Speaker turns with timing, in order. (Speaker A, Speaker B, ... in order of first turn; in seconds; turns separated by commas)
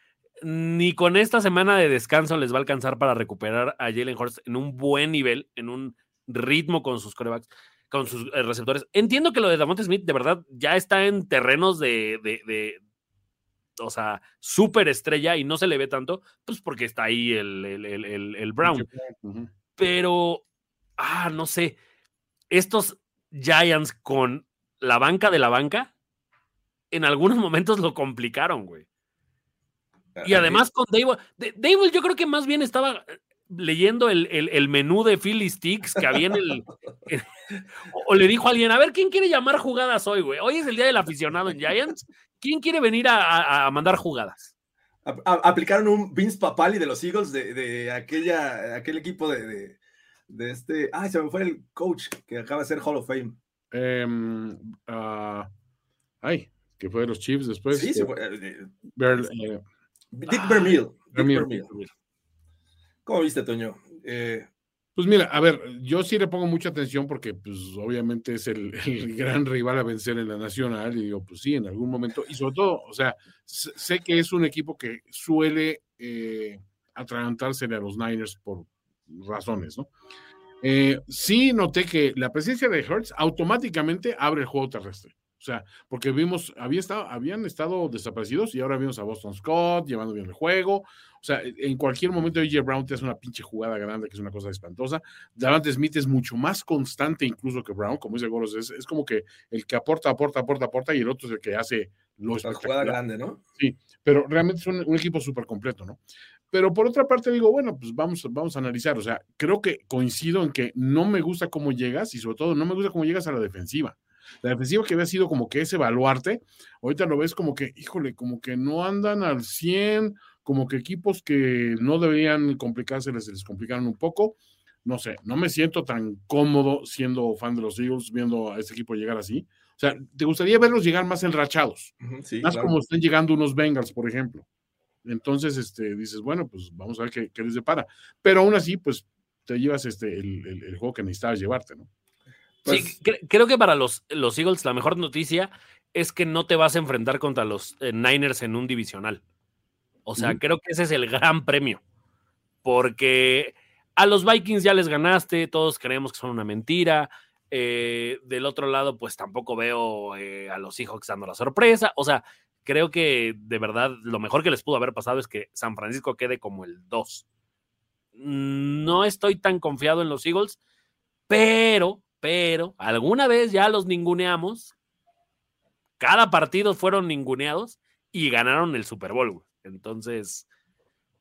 Speaker A: 0.4-12.8, Speaker A: 13.8-18.9, Speaker B: 18.6-19.5, Speaker A: 19.8-20.4, Speaker A: 21.0-21.8, Speaker A: 22.5-25.9, Speaker A: 26.9-28.8, Speaker C: 30.1-30.6, Speaker A: 30.2-37.3, Speaker A: 37.9-44.5, Speaker C: 45.0-49.8, Speaker C: 50.3-53.4, Speaker B: 53.7-55.5, Speaker B: 56.2-58.1, Speaker C: 57.7-58.7, Speaker B: 59.0-59.6, Speaker C: 60.1-61.7, Speaker B: 61.1-61.9, Speaker C: 63.0-64.5, Speaker B: 65.0-79.9, Speaker B: 80.6-103.0, Speaker C: 102.4-103.4, Speaker B: 103.6-106.0, Speaker B: 106.5-131.9, Speaker C: 132.0-132.8, Speaker B: 132.4-134.4, Speaker B: 135.0-141.9, Speaker C: 142.6-142.9, Speaker A: 142.7-149.2, Speaker A: 150.1-151.8, Speaker A: 152.6-167.2, Speaker A: 168.2-170.6, Speaker A: 171.3-174.7, Speaker A: 176.0-180.4